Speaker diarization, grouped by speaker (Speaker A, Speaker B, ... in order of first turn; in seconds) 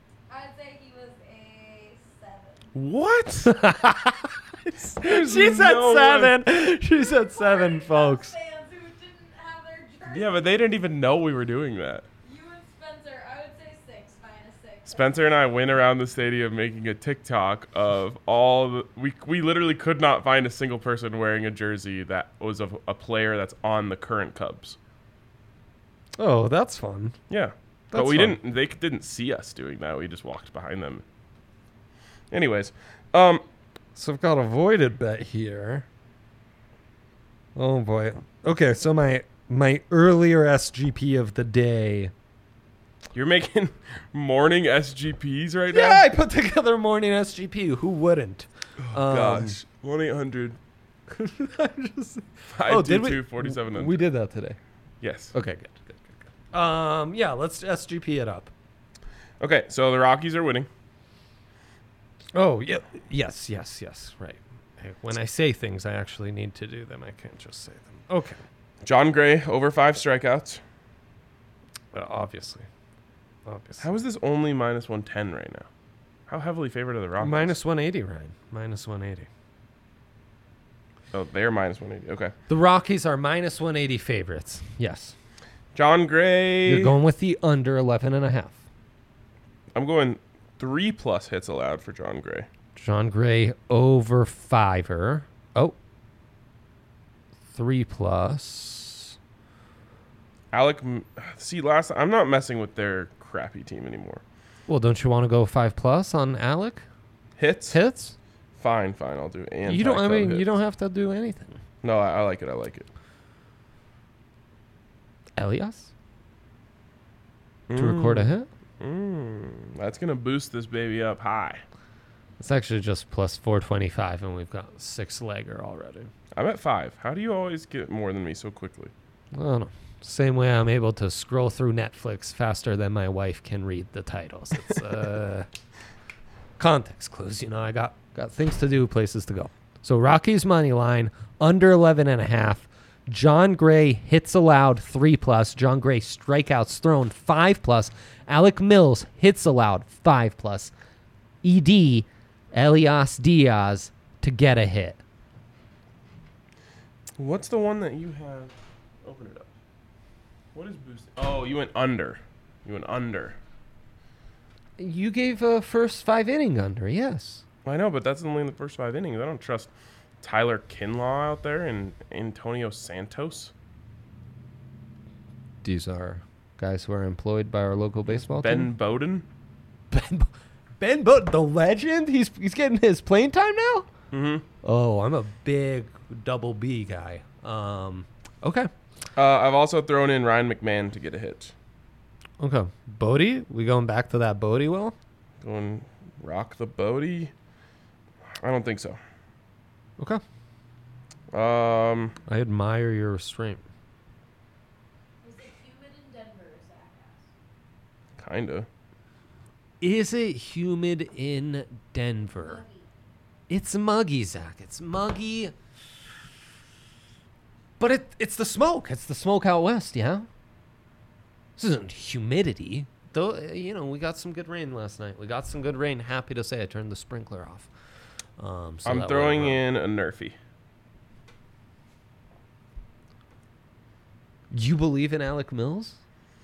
Speaker A: 0.3-2.7, 6.7-10.5, 12.2-15.0, 205.2-207.3, 212.3-212.9
Speaker B: 2.7-3.5, 5.0-6.4, 10.1-12.0, 14.9-24.8, 27.3-31.0, 32.3-33.4, 43.1-46.1, 48.8-50.6, 52.5-54.0, 55.0-55.3, 59.4-60.7, 68.8-70.6, 73.8-75.7, 76.3-77.5, 81.1-82.3, 85.7-86.9, 89.7-92.5, 100.5-104.2, 107.4-107.8, 108.6-110.5, 111.8-112.9, 117.7-121.6, 126.3-128.9, 157.2-159.5, 160.5-163.4, 167.6-169.7, 170.2-173.5, 178.1-179.2, 184.1-184.4, 189.2-191.5, 195.4-197.3, 198.4-199.0, 201.3-202.2, 208.2-208.7, 228.8-230.3
Speaker C: 3.4-8.3, 26.2-27.1, 27.9-28.4, 33.9-35.9, 37.5-42.1, 45.7-49.5, 51.1-54.6, 55.3-58.5, 62.3-68.4, 71.9-72.7, 73.5-73.8, 77.2-79.3, 82.5-85.1, 86.7-88.6, 92.8-95.8, 97.5-99.2, 104.7-106.8, 107.7-108.1, 109.7-111.6, 115.4-115.9, 117.8-118.5, 122.4-126.1, 129.3-135.5, 136.6-150.7, 151.4-155.0, 164.8-167.4, 175.6-178.7, 179.9-183.9, 184.6-188.7, 192.4-194.9, 202.3-203.6, 209.8-212.6, 213.5-215.5, 217.8-220.3, 221.6-227.7, 228.4-229.6, 234.5-235.9